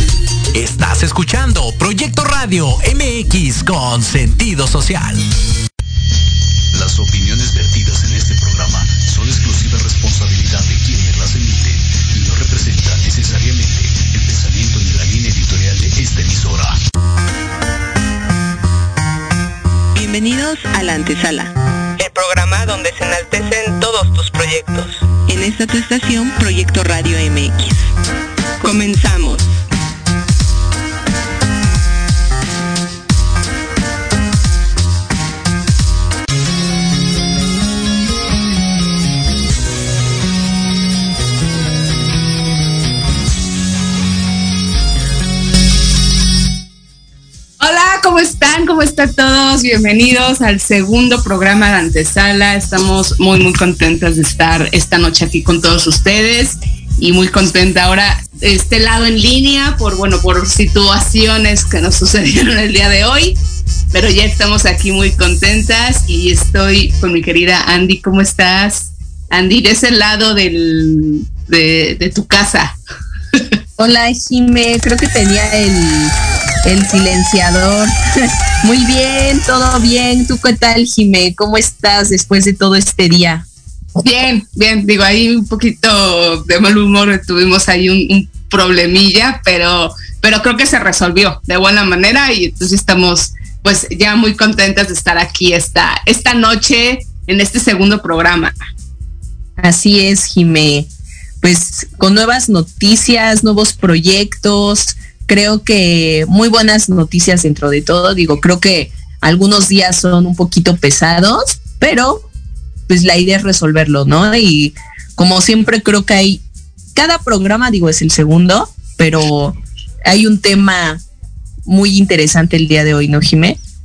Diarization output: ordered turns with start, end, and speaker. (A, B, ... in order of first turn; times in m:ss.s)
0:00.5-0:05.2 A
0:06.7-0:16.8 B
0:19.9-0:27.9 C
0:28.6-0:29.4 C
0:47.6-1:03.4 D
1:03.9-1:12.8 D
1:13.8-1:16.1 E
1:16.6-1:17.9 E
1:18.6-1:23.4 E
1:24.0-1:38.6 D
1:39.6-1:40.9 E
1:41.4-1:52.3 E
1:52.9-1:56.4 E
1:57.0-2:01.0 E
2:01.6-2:03.6 E